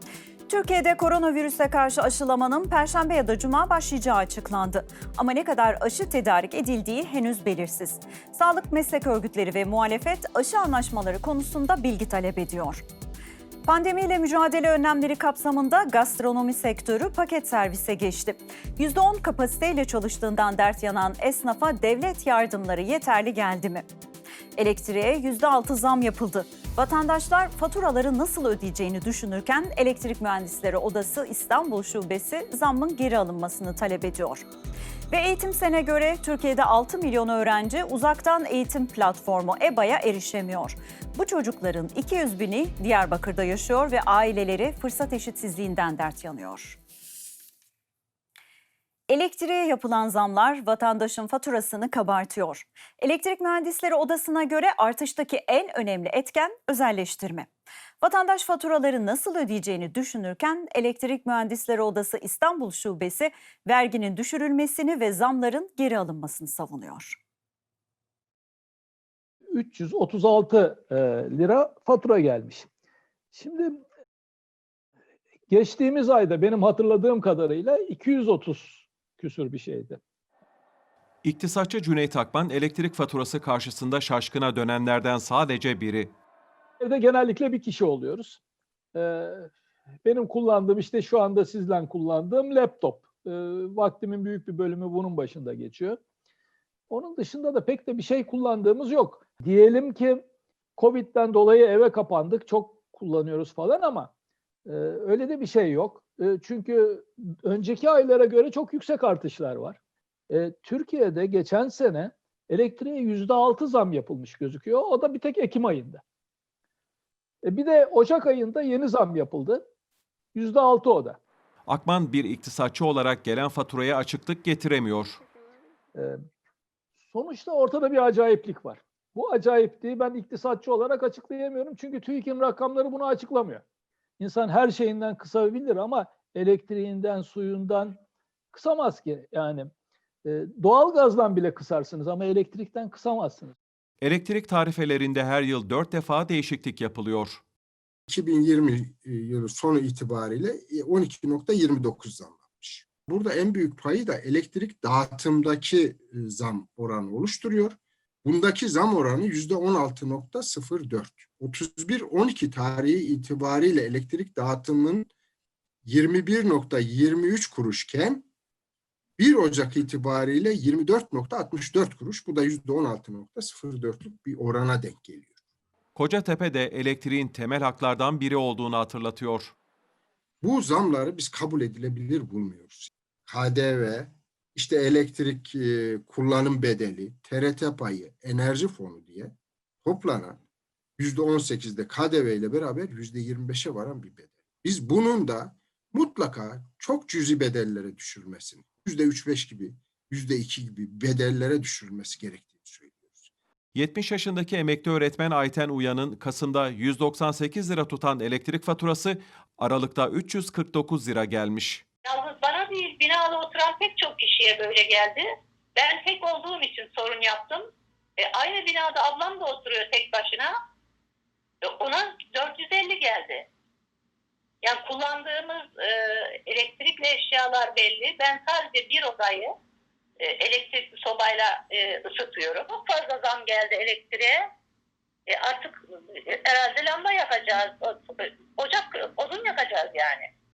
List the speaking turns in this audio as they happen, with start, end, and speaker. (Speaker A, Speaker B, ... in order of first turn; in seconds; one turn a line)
Speaker A: 0.5-12.8
Speaker A: 13.7-23.9
Speaker A: 24.6-34.5
Speaker A: 35.1-46.8
Speaker A: 49.1-57.5
Speaker A: 58.0-67.2
Speaker B: 69.5-72.7
Speaker B: 73.3-73.8
Speaker B: 75.5-80.0
Speaker C: 81.2-86.1
Speaker B: 86.8-88.4
Speaker B: 89.0-89.5
Speaker B: 90.0-96.0
Speaker B: 96.9-100.2
Speaker B: 100.8-104.1
Speaker B: 104.7-109.8
Speaker B: 110.3-116.0
Speaker B: 117.5-119.6
Speaker B: 120.3-121.2
Speaker C: 121.7-125.2
Speaker B: 127.1-133.6
Speaker B: 134.2-138.0
Speaker B: 138.5-139.7
Speaker B: 140.2-143.5
Speaker C: 144.0-147.4
Speaker D: 148.1-165.1
Speaker D: 165.9-168.3
Speaker D: 169.2-175.3
Speaker C: 175.9-179.5
Speaker D: 180.4-189.3
Speaker D: 189.8-190.4
Speaker D: 191.0-203.3
Speaker C: 203.7-211.8
Speaker E: 212.1-217.7
Speaker E: 218.2-220.5
Speaker E: 221.6-223.5
Speaker E: 224.6-225.9
Speaker E: 226.5-229.5
Speaker E: 230.2-234.4
Speaker E: 235.3-240.3